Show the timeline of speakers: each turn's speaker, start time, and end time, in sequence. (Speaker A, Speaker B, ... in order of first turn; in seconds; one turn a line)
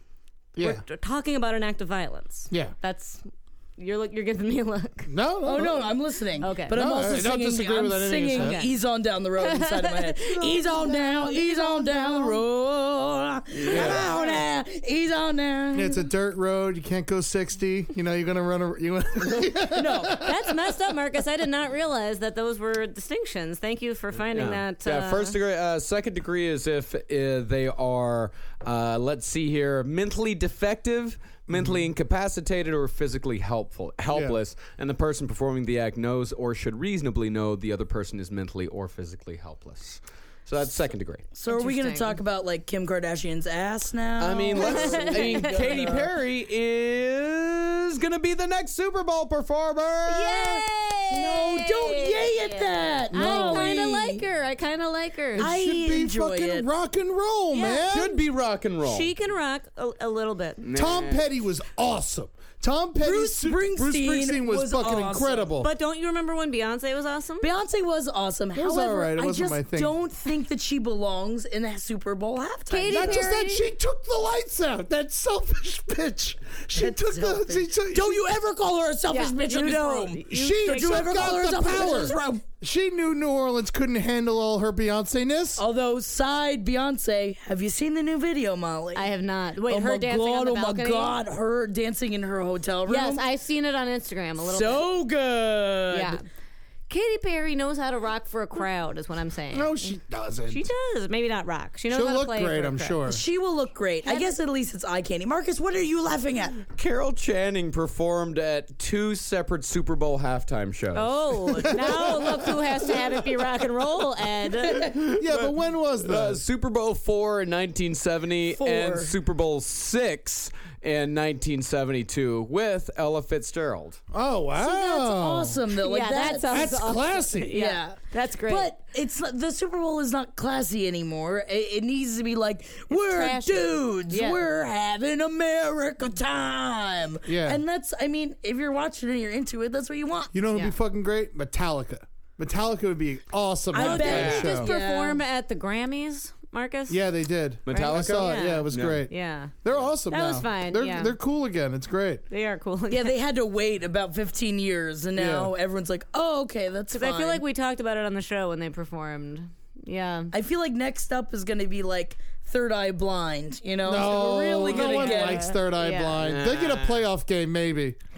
Speaker A: 0.6-0.8
Speaker B: 0.6-3.3
Speaker B: 3.8-5.1
Speaker A: 5.1-5.9
Speaker C: 5.5-16.0
Speaker B: 6.4-6.8
Speaker A: 6.7-8.6
Speaker B: 8.3-8.7
Speaker B: 9.4-12.4
Speaker A: 10.5-11.3
Speaker D: 13.6-14.1
Speaker B: 13.7-14.4
Speaker A: 15.7-20.4
Speaker C: 19.7-20.2
Speaker B: 20.2-25.4
Speaker D: 24.3-41.2
Speaker A: 31.5-31.9
Speaker A: 34.1-34.4
Speaker C: 41.4-46.1
Speaker B: 41.5-42.2
Speaker D: 44.2-50.6
Speaker B: 44.6-45.9
Speaker B: 50.1-55.5
Speaker C: 51.1-54.2
Speaker A: 53.1-53.9
Speaker A: 55.3-58.2
Speaker C: 55.4-56.7
Speaker B: 57.5-58.1
Speaker D: 57.9-59.1
Speaker B: 58.8-60.6
Speaker D: 60.6-61.2
Speaker A: 60.7-65.7
Speaker C: 63.0-65.5
Speaker B: 65.6-67.5
Speaker C: 67.4-73.2
Speaker A: 68.5-70.0
Speaker B: 72.7-73.7
Speaker A: 72.9-78.3
Speaker C: 76.8-82.4
Speaker B: 79.1-82.2
Speaker A: 80.3-85.6
Speaker C: 85.6-89.1
Speaker B: 89.0-91.2
Speaker C: 89.6-93.2
Speaker B: 92.9-94.9
Speaker C: 94.4-96.2
Speaker B: 95.9-96.2
Speaker B: 96.9-100.0
Speaker A: 99.5-100.7
Speaker B: 100.5-103.0
Speaker A: 101.9-103.2
Speaker C: 103.1-106.6
Speaker B: 104.0-104.4
Speaker D: 106.7-111.7
Speaker B: 111.0-114.8
Speaker D: 114.7-124.0
Speaker A: 115.0-116.4
Speaker C: 118.6-119.1
Speaker A: 124.1-125.6
Speaker C: 124.5-126.7
Speaker B: 125.8-128.7
Speaker A: 126.5-127.6
Speaker C: 127.5-140.3
Speaker B: 132.9-134.4
Speaker A: 137.2-137.6
Speaker A: 140.3-144.7
Speaker C: 143.7-145.2
Speaker B: 143.7-147.0
Speaker D: 144.0-144.5
Speaker A: 146.9-152.2
Speaker D: 147.7-149.1
Speaker B: 147.7-149.5
Speaker B: 150.1-151.2
Speaker B: 152.3-153.2
Speaker C: 152.9-157.4
Speaker A: 155.1-155.5
Speaker B: 156.9-160.3
Speaker C: 160.3-165.5
Speaker A: 163.8-168.0
Speaker B: 164.6-166.2
Speaker D: 166.2-167.1